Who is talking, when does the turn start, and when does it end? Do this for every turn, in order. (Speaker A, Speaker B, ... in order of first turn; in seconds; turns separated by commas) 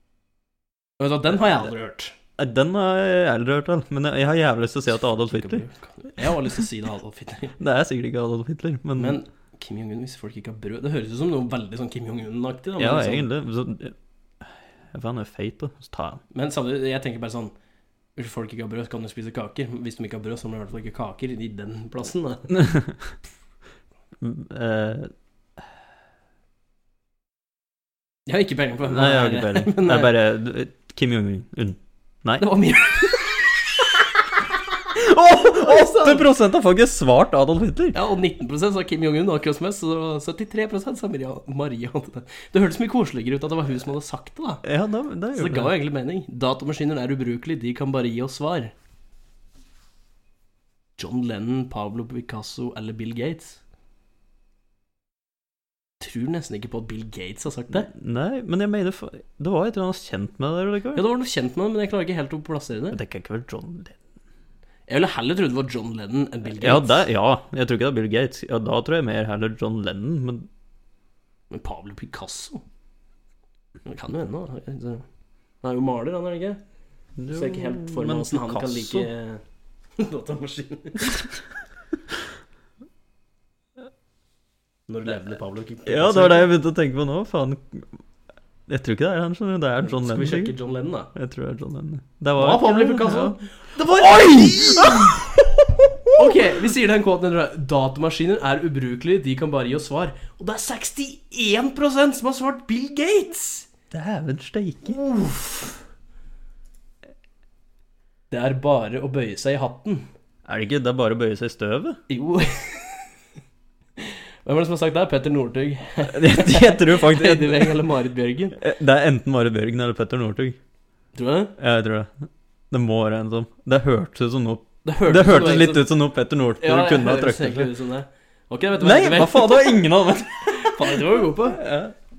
Speaker A: 1.0-2.1, Speaker B: 2.4-5.6, Speaker A: 5.0-7.6, Speaker B: 7.6-9.2, Speaker A: 9.0-13.3, Speaker B: 12.8-16.2, Speaker A: 16.3-17.5, Speaker A: 18.1-22.5, Speaker B: 22.5-23.2, Speaker B: 24.2-25.1, Speaker A: 28.3-30.1, Speaker B: 28.9-32.4, Speaker A: 32.4-33.6, Speaker B: 34.9-38.0, Speaker A: 35.4-36.3, Speaker A: 37.9-44.6, Speaker B: 44.6-45.7, Speaker A: 45.3-48.7, Speaker A: 51.0-53.6, Speaker A: 56.0-57.9, Speaker B: 57.7-61.0, Speaker A: 60.9-63.0, Speaker B: 62.9-64.0, Speaker A: 64.9-67.0, Speaker B: 66.6-70.5, Speaker A: 71.5-72.6, Speaker A: 73.8-75.0, Speaker A: 75.6-76.6, Speaker B: 77.2-79.1, Speaker A: 77.3-79.4, Speaker A: 80.0-81.2, Speaker A: 84.9-86.5, Speaker B: 85.8-88.0, Speaker B: 88.7-90.5, Speaker A: 89.8-91.1, Speaker B: 91.1-96.5, Speaker A: 92.3-95.3, Speaker A: 96.1-103.7, Speaker B: 103.9-105.0, Speaker A: 104.8-105.8, Speaker A: 108.3-110.1, Speaker B: 110.5-112.0, Speaker A: 112.1-113.1, Speaker A: 114.0-118.6, Speaker B: 116.1-117.8, Speaker B: 118.5-120.6, Speaker A: 121.1-121.5, Speaker B: 121.6-127.7, Speaker A: 124.8-125.9, Speaker A: 126.6-129.8, Speaker B: 128.8-131.9, Speaker A: 130.4-131.6